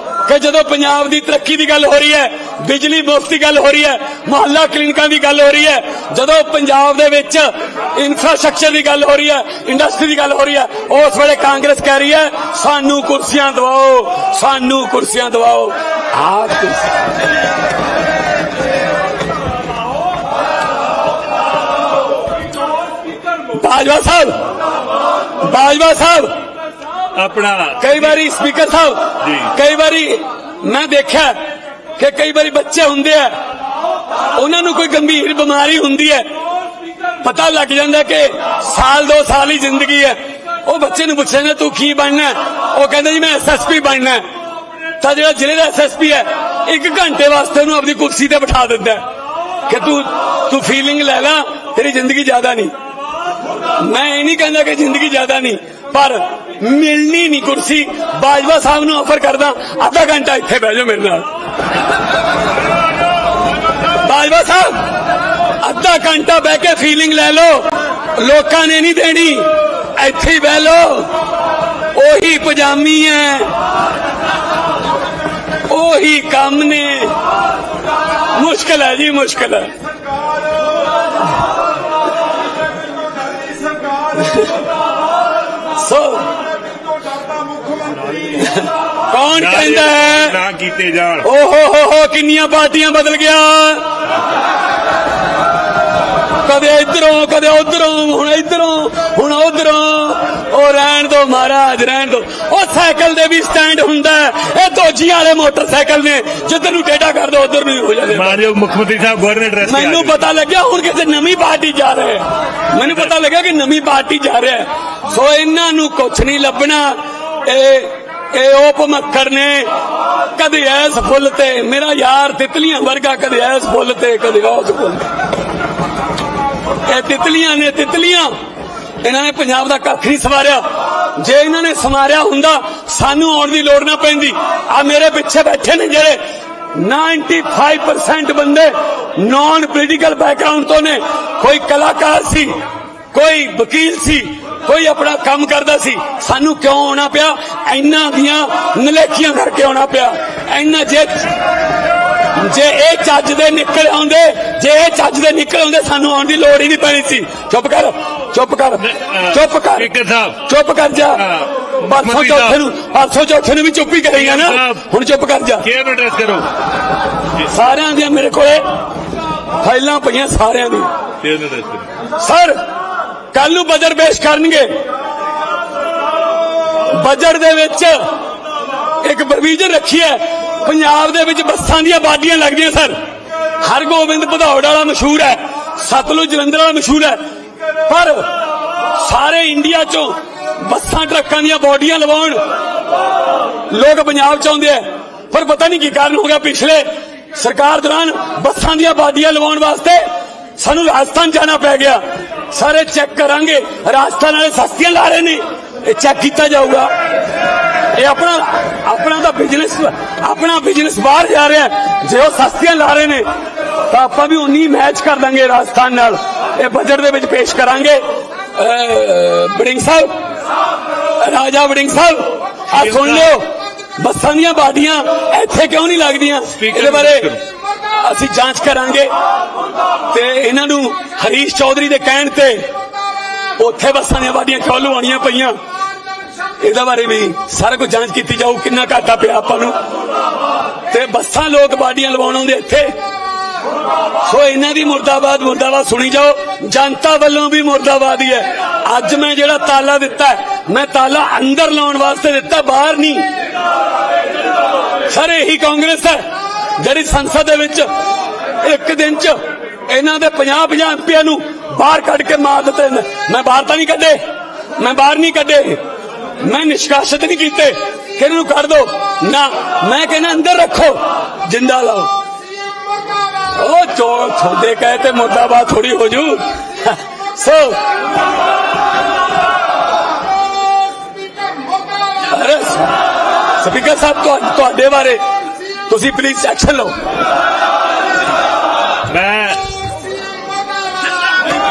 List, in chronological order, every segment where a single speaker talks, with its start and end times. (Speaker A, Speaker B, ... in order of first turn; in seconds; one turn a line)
Speaker A: 0.2-16.9
Speaker A: 23.5-24.4
Speaker A: 25.4-26.4
Speaker B: 27.2-28.2
Speaker A: 27.8-31.4
Speaker B: 29.2-29.5
Speaker A: 32.0-33.4
Speaker A: 34.4-36.3
Speaker A: 37.2-44.2
Speaker A: 45.0-49.0
Speaker A: 49.7-52.7
Speaker A: 53.8-61.3
Speaker A: 64.0-64.9
Speaker A: 65.6-71.1
Speaker A: 71.9-73.5
Speaker A: 75.7-77.2
Speaker A: 78.3-79.7
Speaker A: 84.2-84.5
Speaker A: 85.8-86.3
Speaker A: 88.4-90.4
Speaker B: 89.3-91.3
Speaker A: 91.2-93.8
Speaker A: 96.5-108.4
Speaker B: 108.1-110.3
Speaker A: 109.6-119.7
Speaker B: 112.8-113.1
Speaker A: 120.3-125.0
Speaker A: 126.9-128.3
Speaker A: 129.0-130.6
Speaker A: 131.2-136.2
Speaker A: 136.7-142.6
Speaker A: 143.1-151.3
Speaker A: 152.4-159.9
Speaker B: 158.8-160.4
Speaker A: 160.4-161.3
Speaker B: 161.2-162.6
Speaker A: 161.8-165.7
Speaker B: 164.1-164.8
Speaker B: 165.6-166.5
Speaker A: 167.5-168.7
Speaker A: 169.6-170.9
Speaker B: 171.2-171.9
Speaker A: 172.2-172.6
Speaker A: 173.3-174.7
Speaker A: 176.9-178.1
Speaker A: 179.0-183.0
Speaker A: 183.6-187.2
Speaker A: 187.9-188.3
Speaker A: 188.9-192.4
Speaker A: 193.7-200.1
Speaker A: 200.6-206.9
Speaker A: 207.9-213.3
Speaker A: 213.9-220.2
Speaker A: 221.2-227.3
Speaker B: 222.7-223.4
Speaker B: 226.6-227.4
Speaker A: 228.0-229.1
Speaker A: 230.1-232.7
Speaker A: 233.6-235.6
Speaker A: 236.6-239.8
Speaker A: 240.9-242.9
Speaker A: 244.2-253.3
Speaker A: 255.1-256.2
Speaker A: 256.8-257.9
Speaker A: 258.6-264.2
Speaker A: 264.8-265.8
Speaker A: 266.4-272.1
Speaker A: 273.6-277.8
Speaker A: 282.3-283.0
Speaker A: 283.6-285.2
Speaker A: 285.9-286.9
Speaker B: 289.1-289.7